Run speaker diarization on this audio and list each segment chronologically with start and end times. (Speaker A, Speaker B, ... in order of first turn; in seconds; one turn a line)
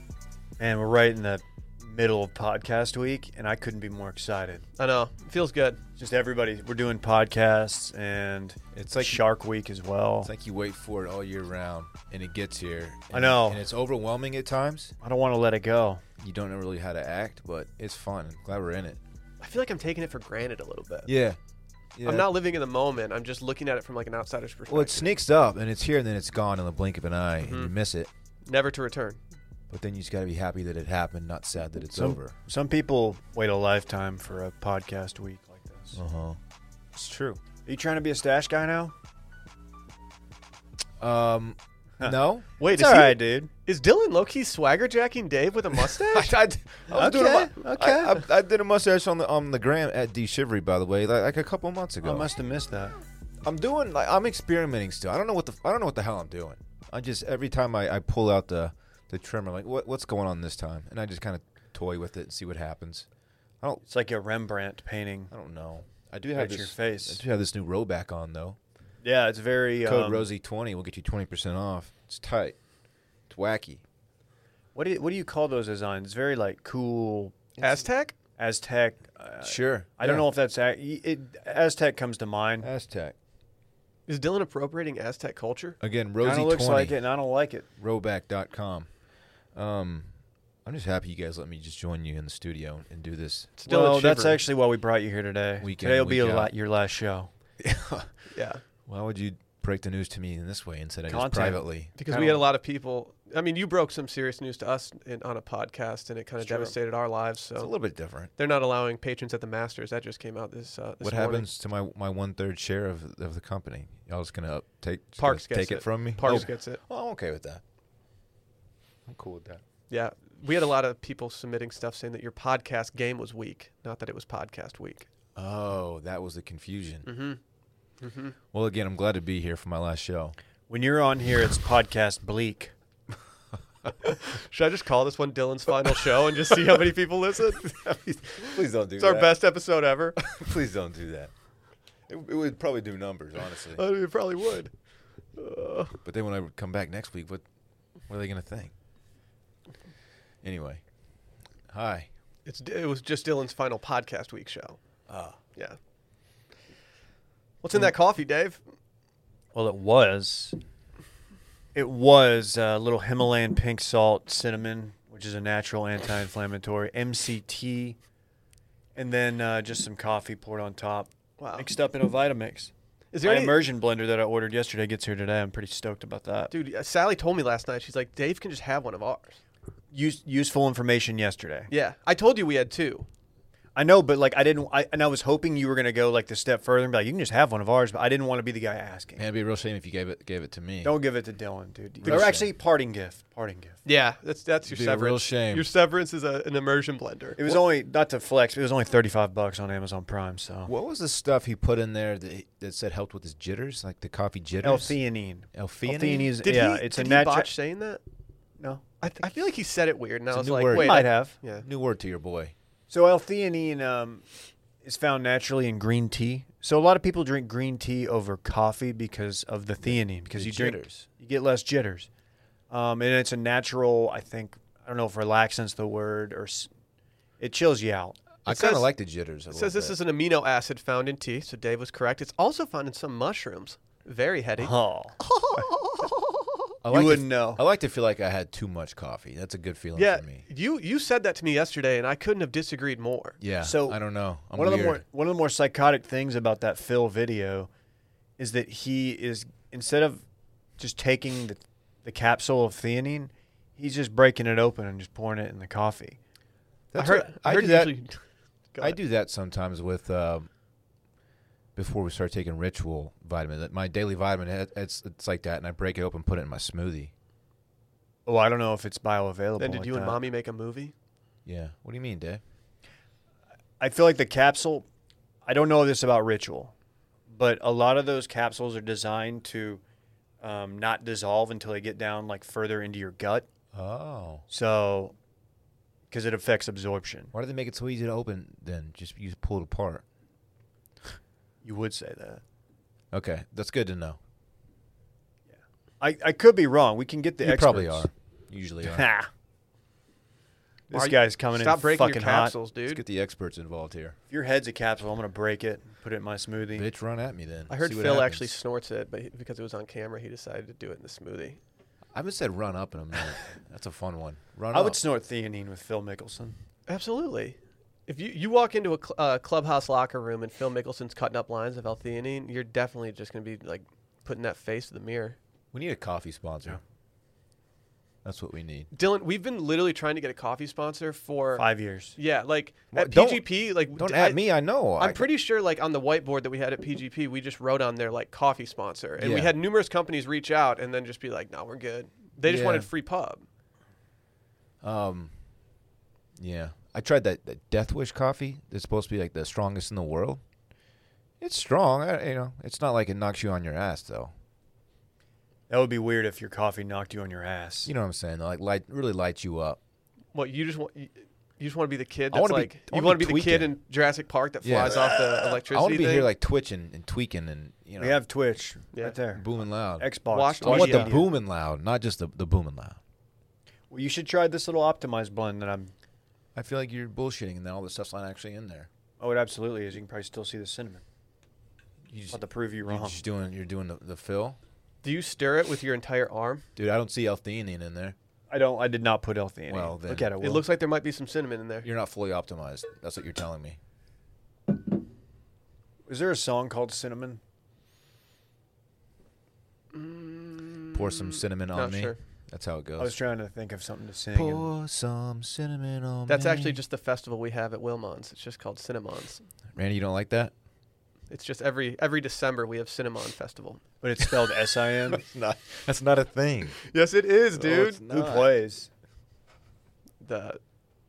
Speaker A: 0.6-4.7
Speaker B: 4.8-5.8
Speaker A: 6.0-10.3
Speaker C: 8.7-9.3
Speaker C: 10.2-14.9
Speaker A: 13.1-13.7
Speaker A: 15.0-16.0
Speaker C: 16.2-19.0
Speaker B: 19.4-21.1
Speaker C: 21.1-21.4
Speaker C: 22.0-22.3
Speaker B: 22.1-25.1
Speaker C: 24.7-28.1
Speaker B: 27.4-27.7
Speaker B: 28.5-29.2
Speaker C: 29.7-32.3
Speaker A: 31.9-36.0
Speaker C: 36.0-36.4
Speaker C: 37.0-37.4
Speaker A: 37.7-38.9
Speaker C: 41.0-42.5
Speaker A: 42.0-43.5
Speaker B: 42.6-46.3
Speaker C: 45.9-52.3
Speaker A: 46.9-48.2
Speaker A: 52.0-53.0
Speaker C: 53.5-63.1
Speaker A: 63.9-65.3
Speaker C: 65.3-68.6
Speaker A: 66.3-67.2
Speaker A: 69.0-70.3
Speaker C: 69.8-72.6
Speaker C: 73.3-73.8
Speaker A: 74.8-77.4
Speaker B: 77.6-78.2
Speaker A: 78.4-82.7
Speaker C: 79.4-80.3
Speaker C: 82.6-83.2
Speaker B: 84.1-85.8
Speaker C: 85.8-87.0
Speaker A: 86.2-87.7
Speaker C: 87.8-88.9
Speaker C: 89.5-90.1
Speaker C: 90.7-93.5
Speaker B: 93.6-94.4
Speaker A: 93.6-97.3
Speaker C: 95.6-96.5
Speaker C: 97.6-98.1
Speaker B: 98.3-98.6
Speaker C: 98.9-101.9
Speaker A: 101.1-102.5
Speaker B: 102.0-107.7
Speaker A: 106.4-106.7
Speaker C: 107.6-108.3
Speaker B: 108.4-111.5
Speaker C: 111.0-117.6
Speaker B: 115.2-116.8
Speaker C: 119.1-119.6
Speaker B: 119.9-125.1
Speaker C: 125.4-127.1
Speaker B: 127.0-127.4
Speaker B: 128.0-128.3
Speaker C: 128.5-130.4
Speaker A: 130.7-132.7
Speaker B: 134.1-137.7
Speaker C: 137.6-139.3
Speaker B: 138.4-140.2
Speaker C: 140.2-141.3
Speaker C: 142.1-143.8
Speaker B: 143.8-144.7
Speaker B: 145.4-146.0
Speaker C: 146.0-147.4
Speaker C: 148.1-148.7
Speaker C: 150.4-150.8
Speaker C: 151.7-152.1
Speaker B: 152.5-154.8
Speaker C: 155.1-155.4
Speaker B: 157.6-158.6
Speaker A: 159.5-160.6
Speaker A: 161.7-168.0
Speaker A: 169.0-172.7
Speaker B: 171.4-171.7
Speaker B: 173.1-173.6
Speaker A: 173.2-176.5
Speaker B: 176.5-179.4
Speaker A: 179.9-181.7
Speaker B: 181.7-183.1
Speaker A: 183.8-189.2
Speaker C: 189.2-190.9
Speaker A: 190.8-193.8
Speaker C: 192.0-192.5
Speaker B: 192.1-192.3
Speaker B: 193.8-197.4
Speaker C: 194.7-195.7
Speaker A: 197.4-200.7
Speaker C: 200.7-205.0
Speaker A: 204.6-207.5
Speaker C: 205.5-206.3
Speaker B: 206.4-208.0
Speaker A: 208.6-209.3
Speaker B: 209.0-211.7
Speaker C: 210.3-212.5
Speaker A: 210.7-211.4
Speaker A: 212.9-214.2
Speaker A: 214.8-222.1
Speaker C: 219.8-221.0
Speaker A: 222.7-226.7
Speaker A: 227.4-228.2
Speaker C: 228.4-230.0
Speaker B: 228.5-228.9
Speaker B: 229.5-236.1
Speaker A: 234.6-235.2
Speaker C: 236.8-240.4
Speaker A: 236.9-237.6
Speaker B: 239.9-243.4
Speaker C: 243.4-245.0
Speaker A: 243.6-244.0
Speaker A: 244.5-247.7
Speaker A: 248.4-250.2
Speaker A: 250.8-256.2
Speaker C: 256.9-257.9
Speaker B: 257.0-258.2
Speaker C: 258.8-260.5
Speaker C: 261.8-267.1
Speaker A: 268.3-270.2
Speaker B: 269.6-270.9
Speaker C: 271.4-272.4
Speaker A: 273.8-274.9
Speaker A: 275.5-276.7
Speaker A: 277.3-279.8
Speaker A: 280.4-283.5
Speaker C: 283.7-284.4
Speaker A: 284.5-285.1
Speaker A: 286.1-287.3
Speaker C: 287.3-290.0
Speaker A: 291.6-292.4
Speaker C: 293.1-294.2
Speaker A: 296.0-298.1
Speaker C: 297.4-299.1
Speaker A: 298.8-299.3
Speaker A: 300.9-302.5
Speaker B: 300.9-303.0
Speaker C: 302.9-304.2
Speaker A: 304.3-306.9
Speaker C: 306.7-308.5
Speaker B: 307.7-311.6
Speaker C: 312.1-315.0
Speaker A: 314.7-316.6
Speaker B: 316.9-325.4
Speaker C: 325.7-326.8
Speaker C: 328.2-328.9
Speaker B: 328.9-331.6
Speaker A: 331.6-332.2
Speaker B: 332.2-334.4
Speaker C: 332.9-335.3
Speaker B: 335.0-343.4
Speaker C: 339.2-339.5
Speaker C: 342.4-342.9
Speaker C: 344.8-345.3
Speaker C: 346.4-350.4
Speaker C: 351.4-354.3
Speaker A: 355.7-357.9
Speaker C: 357.9-359.8
Speaker B: 360.3-366.3
Speaker C: 362.3-363.7
Speaker C: 364.6-368.2
Speaker A: 368.0-371.3
Speaker C: 369.3-370.1
Speaker B: 370.3-371.1
Speaker C: 370.6-373.0
Speaker A: 373.9-375.9
Speaker C: 376.6-378.9
Speaker A: 379.2-381.0
Speaker C: 382.1-384.6
Speaker A: 382.3-383.2
Speaker B: 385.0-386.6
Speaker C: 386.8-388.2
Speaker A: 388.5-390.7
Speaker C: 389.7-390.3
Speaker B: 390.4-391.9
Speaker C: 391.8-393.8
Speaker A: 396.1-397.4
Speaker B: 399.9-402.2
Speaker C: 400.9-403.2
Speaker A: 403.0-404.7
Speaker C: 404.4-406.8
Speaker B: 406.3-409.4
Speaker C: 409.8-410.5
Speaker B: 411.3-413.8
Speaker A: 414.0-415.2
Speaker C: 415.1-416.8
Speaker B: 416.9-418.0
Speaker C: 417.6-418.5
Speaker A: 417.9-418.9
Speaker B: 420.2-420.6